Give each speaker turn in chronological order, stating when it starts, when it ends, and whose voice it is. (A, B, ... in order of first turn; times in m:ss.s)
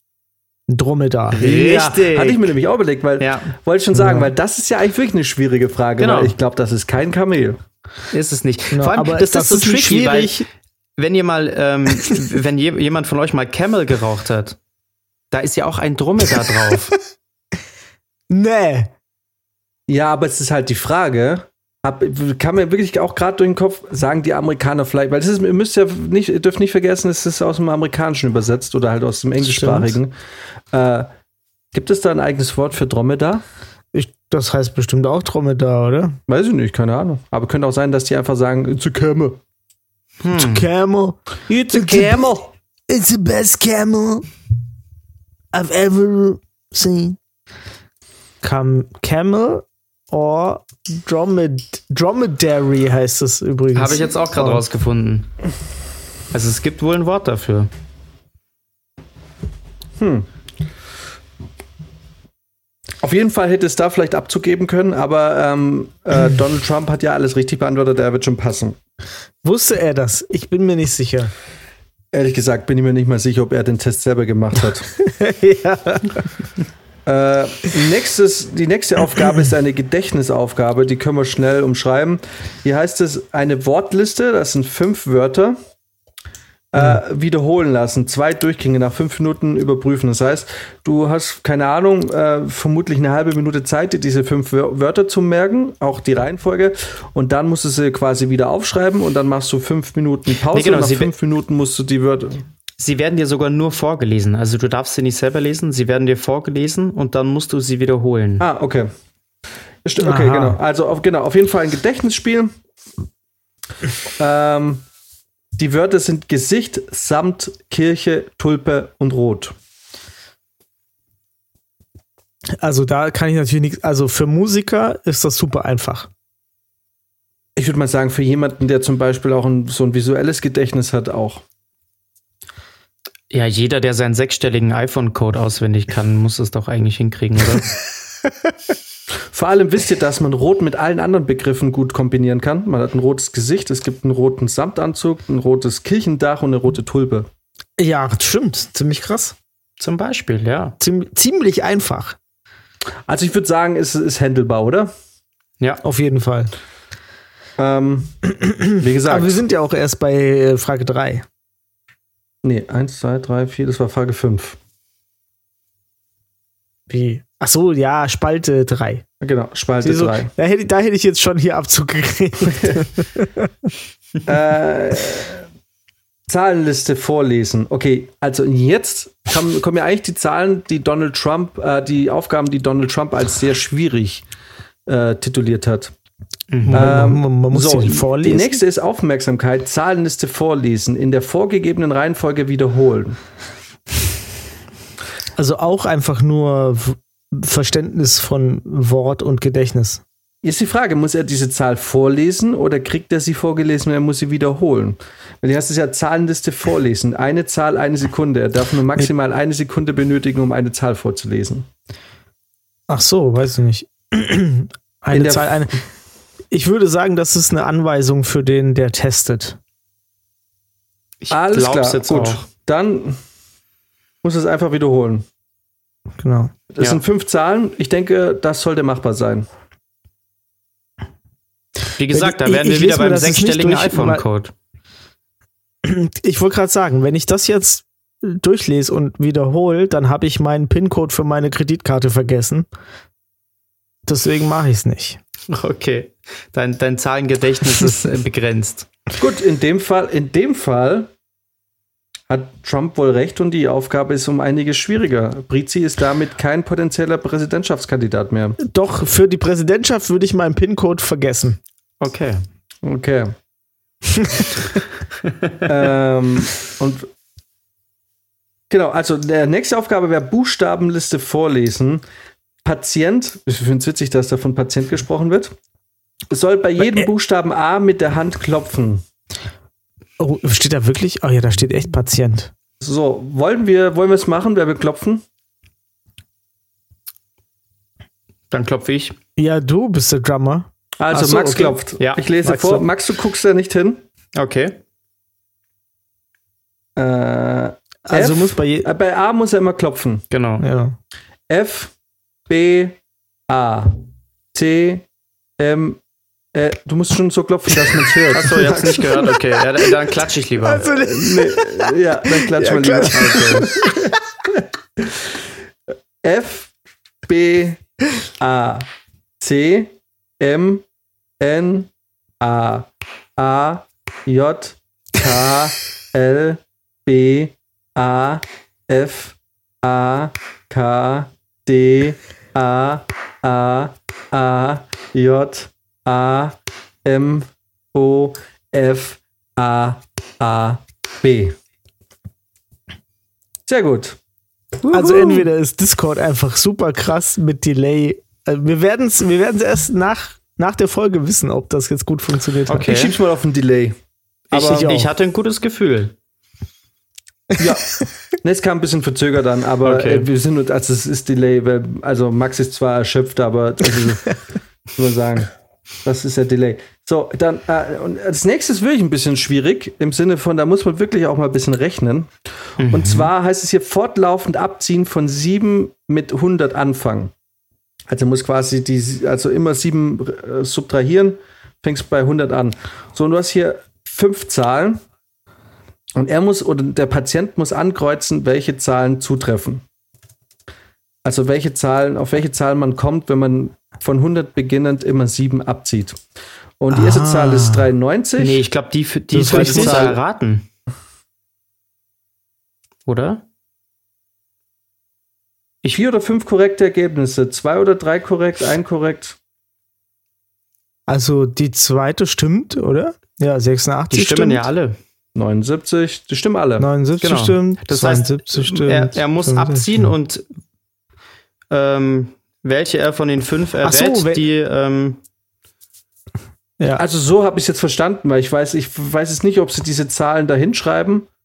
0:00.7-0:01.7 A
0:01.3-0:02.5 B
0:01.4-0:07.6 C
0:03.2-0:03.5 B
0:03.9-0:04.3 A
0:06.0-0:06.4 B
0:08.1-0:10.4 B
0:08.7-0:10.4 A
0:11.0-0:14.6 B
0:15.3-0:16.9 B
0:18.3-0:18.9 A
0:19.9-0:30.1 C
0:29.4-0:30.0 A
0:30.7-0:31.1 C
0:31.7-0:33.4 C
0:33.9-0:36.2 A
0:36.3-0:39.4 C
0:40.2-0:40.6 B
0:40.3-0:42.2 A
0:41.5-0:42.5 C
0:42.9-0:44.3 A
0:45.5-0:47.2 A
0:48.4-0:54.6 A
0:53.7-0:55.3 B
0:56.3-0:57.7 B
1:00.0-1:00.3 C
1:03.0-1:08.8 C
1:09.4-1:11.3 A
1:12.1-1:14.9 C
1:15.0-1:16.2 A
1:17.1-1:25.6 C
1:26.7-1:42.4 C
1:40.5-1:41.1 B
1:42.8-1:48.4 B
1:48.4-1:48.9 C
1:49.8-1:52.5 C
1:50.0-1:50.6 A
1:54.2-1:54.8 C
1:55.6-1:59.6 C
2:02.6-2:06.1 A
2:07.6-2:11.4 C
2:13.3-2:17.8 B
2:19.3-2:27.3 C
2:27.8-2:29.4 A
2:29.8-2:30.8 B
2:30.8-2:32.2 A
2:33.1-2:34.9 C
2:35.8-2:36.5 A
2:37.6-2:38.2 C
2:38.4-2:41.2 A
2:38.8-2:39.4 C
2:42.4-2:44.6 C
2:46.9-2:49.0 A
2:49.2-2:50.3 C
2:49.8-2:53.5 A
2:52.5-2:52.8 C
2:54.2-2:55.4 C
2:56.3-3:04.2 C
3:04.9-3:05.9 C
3:06.5-3:06.9 B
3:06.7-3:08.6 A
3:06.7-3:13.2 C
3:15.4-3:20.0 A
3:20.4-3:31.7 C
3:32.9-3:35.8 A
3:35.1-3:35.7 C
3:36.5-3:39.6 A
3:41.2-3:42.4 B
3:41.3-3:43.2 C
3:44.2-3:45.2 C
3:46.2-3:46.5 A
3:46.7-3:49.5 C
3:52.0-3:54.5 B
3:52.1-3:54.2 A
3:55.8-4:02.7 A
4:04.1-4:05.2 A
4:05.5-4:08.9 B
4:09.2-4:11.1 C
4:12.3-4:18.6 C
4:18.6-4:21.6 A
4:22.0-4:22.4 B
4:22.8-4:23.3 C
4:24.2-4:24.5 A
4:25.6-4:27.1 C
4:28.7-4:32.0 C
4:32.6-4:35.5 C
4:36.3-4:39.0 C
4:40.2-4:42.5 A
4:42.8-4:45.2 C
4:48.5-4:49.2 B
4:49.4-4:51.8 A
4:51.0-4:54.0 C
4:52.0-4:52.2 B
4:52.4-4:52.8 A
4:54.4-4:54.8 B
4:57.0-5:00.2 C
4:58.1-4:58.9 A
5:00.3-5:00.6 B
5:00.6-5:01.0 A
5:01.5-5:01.9 C
5:02.5-5:04.0 C
5:04.5-5:05.1 C
5:05.6-5:06.0 C
5:06.5-5:09.2 C
5:08.3-5:11.0 B
5:10.6-5:11.9 A
5:11.0-5:13.9 C
5:12.5-5:14.1 A
5:13.1-5:13.7 B
5:16.2-5:16.7 C
5:17.3-5:17.8 C
5:18.4-5:18.9 C
5:19.4-5:20.8 C
5:21.4-5:21.9 C
5:22.4-5:41.6 C
5:43.7-5:44.2 C
5:44.8-5:45.5 C
5:44.9-5:52.8 A
5:52.7-5:53.2 B
5:52.8-5:54.0 C
5:54.5-5:56.1 B
5:54.5-5:54.9 C
5:54.6-5:55.1 A
5:57.6-6:04.4 C
5:59.8-6:00.3 B
6:05.0-6:05.5 C
6:06.0-6:12.3 C
6:12.8-6:13.3 B
6:12.8-6:17.3 C
6:18.1-6:25.0 C
6:26.2-6:29.8 C
6:31.2-6:36.2 C
6:36.8-6:38.6 C
6:36.9-6:37.9 A
6:38.4-6:40.7 B
6:39.3-6:40.2 A
6:39.4-6:40.2 C
6:43.1-6:43.4 B
6:45.8-6:49.4 C
6:51.1-6:54.7 A
6:54.1-6:55.0 B
6:55.4-6:56.9 C
6:56.8-7:00.0 A
6:57.2-7:00.5 B
7:01.7-7:05.2 B
7:03.8-7:04.4 A
7:07.0-7:11.3 C